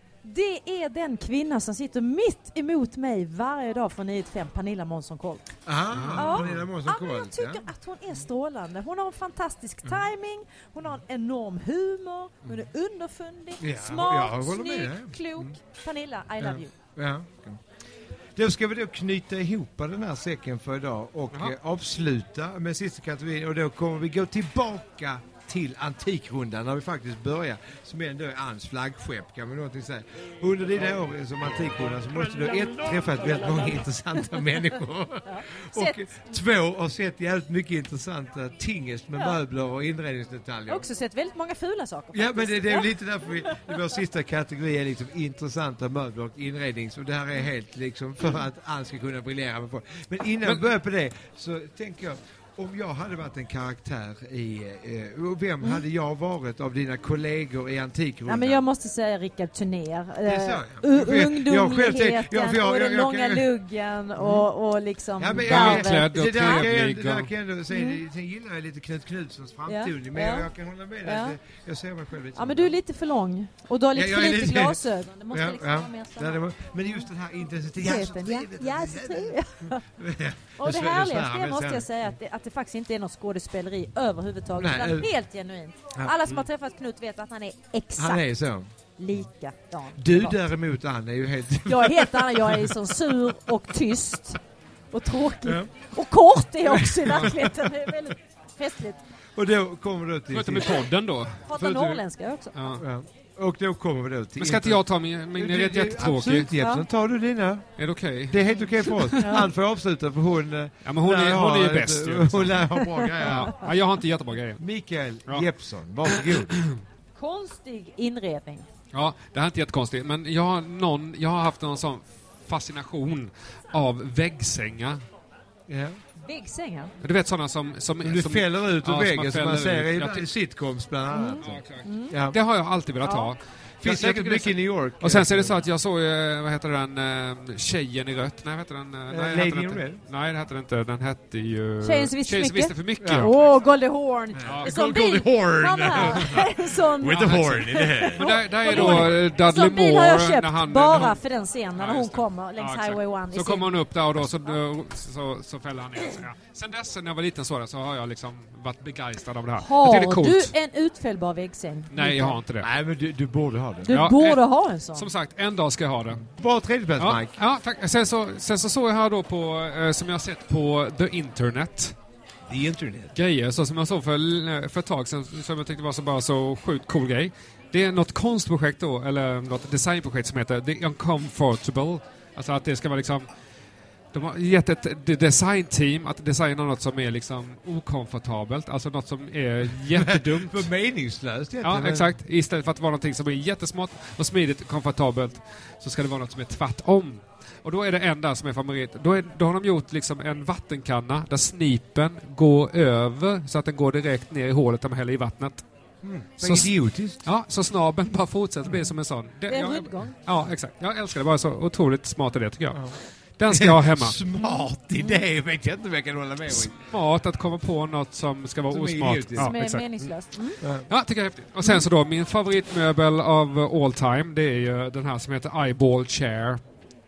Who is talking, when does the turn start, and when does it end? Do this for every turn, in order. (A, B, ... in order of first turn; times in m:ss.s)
0:00.2-0:05.6 A
0:05.6-0:07.7 B
0:05.9-0:06.6 C
0:06.1-0:16.7 A
0:13.6-0:15.6 B
0:16.4-0:17.6 B
0:18.4-0:40.9 B
0:35.2-0:36.0 A
0:40.7-0:43.8 A
0:42.1-0:58.6 B
0:58.3-1:06.7 A
1:00.2-1:03.5 B
1:04.2-1:04.4 B
1:05.2-1:12.8 B
1:05.4-1:07.3 C
1:07.7-1:08.0 A
1:09.7-1:10.5 A
1:11.0-1:11.4 A
1:12.4-1:16.4 A
1:13.9-1:21.9 B
1:17.8-1:19.8 A
1:20.6-1:28.2 A
1:24.6-1:25.1 B
1:28.0-1:28.7 B
1:29.0-1:30.4 A
1:30.0-1:32.8 B
1:31.7-1:34.4 A
1:34.9-1:39.0 A
1:36.6-1:37.7 B
1:39.4-1:40.8 B
1:40.3-1:42.0 C
1:41.5-1:42.5 A
1:42.5-1:42.8 C
1:42.8-1:44.8 B
1:44.4-1:46.5 C
1:45.3-1:53.6 B
1:46.6-1:46.8 A
1:47.8-1:48.4 C
1:49.2-1:49.5 A
1:50.8-1:54.6 C
1:54.6-1:56.7 B
1:56.1-1:56.8 C
1:57.2-1:58.7 A
1:58.9-2:05.0 C
2:05.7-2:06.0 B
2:06.2-2:06.9 A
2:07.0-2:10.2 C
2:08.0-2:12.4 B
2:11.1-2:12.1 A
2:11.4-2:23.4 C
2:13.0-2:13.3 A
2:13.8-2:15.6 B
2:19.1-2:20.0 B
2:21.8-2:33.7 A
2:23.0-2:23.3 B
2:24.4-2:29.2 B
2:26.0-2:26.4 C
2:27.0-2:31.2 C
2:31.8-2:40.5 C
2:39.6-2:42.3 A
2:41.9-2:42.7 C
2:42.0-2:44.0 B
2:43.8-2:45.1 A
2:43.9-2:46.2 C
2:46.2-2:47.4 B
2:47.0-2:52.0 C
2:52.5-2:53.1 B
2:53.2-3:03.3 C
3:04.1-3:10.7 C
3:09.9-3:12.1 B
3:11.6-3:25.6 C
3:26.0-3:27.2 B
3:26.4-3:26.7 C
3:27.2-3:34.2 C
3:29.5-3:30.2 A
3:33.5-3:36.7 B
3:34.4-3:35.2 A
3:36.5-3:46.6 C
3:38.7-3:39.5 B
3:39.4-3:40.6 A
3:40.6-3:40.9 B